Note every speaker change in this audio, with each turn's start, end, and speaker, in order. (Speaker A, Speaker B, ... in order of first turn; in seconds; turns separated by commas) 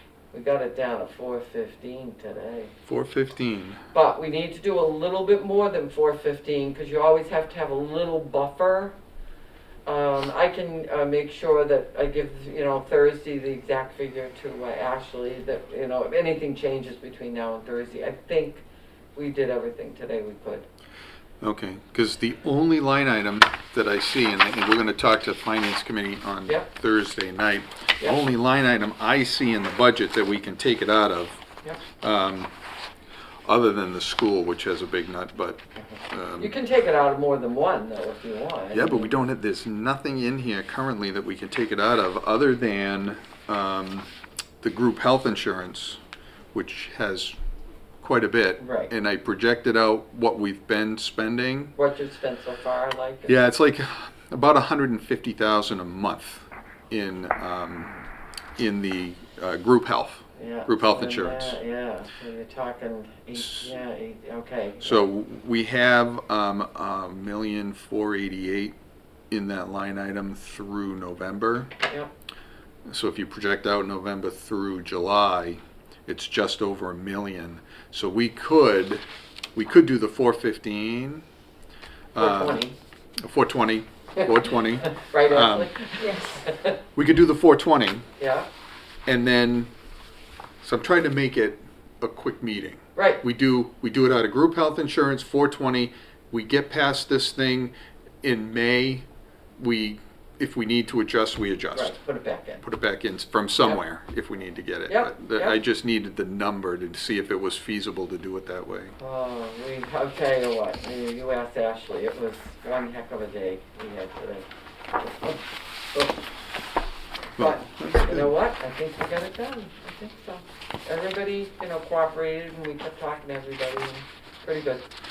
Speaker A: 0.3-2.7, Speaker B: 2.9-3.8, Speaker A: 3.9-8.9, Speaker A: 9.8-18.6, Speaker A: 19.1-20.6, Speaker B: 21.4-31.4, Speaker B: 32.0-32.5, Speaker B: 33.4-36.5, Speaker A: 35.8-39.1, Speaker B: 38.7-44.1, Speaker B: 44.6-46.0, Speaker B: 46.5-47.3, Speaker B: 48.0-51.7, Speaker A: 48.6-48.9, Speaker A: 51.8-53.4, Speaker B: 53.3-58.0, Speaker B: 58.6-61.6, Speaker A: 60.4-65.0, Speaker B: 63.4-63.7, Speaker B: 64.8-68.8, Speaker B: 69.3-71.7, Speaker B: 72.9-79.0, Speaker B: 79.5-81.2, Speaker B: 82.1-82.6, Speaker A: 82.2-82.8, Speaker B: 83.2-85.7, Speaker A: 84.2-86.8, Speaker B: 87.0-88.0, Speaker A: 88.2-88.5, Speaker B: 89.0-89.7, Speaker B: 90.6-99.0, Speaker A: 93.0-93.2, Speaker B: 99.6-101.9, Speaker A: 101.7-102.6, Speaker B: 102.6-108.9, Speaker A: 104.9-105.6, Speaker A: 109.0-116.3, Speaker A: 117.3-124.9, Speaker B: 117.4-118.3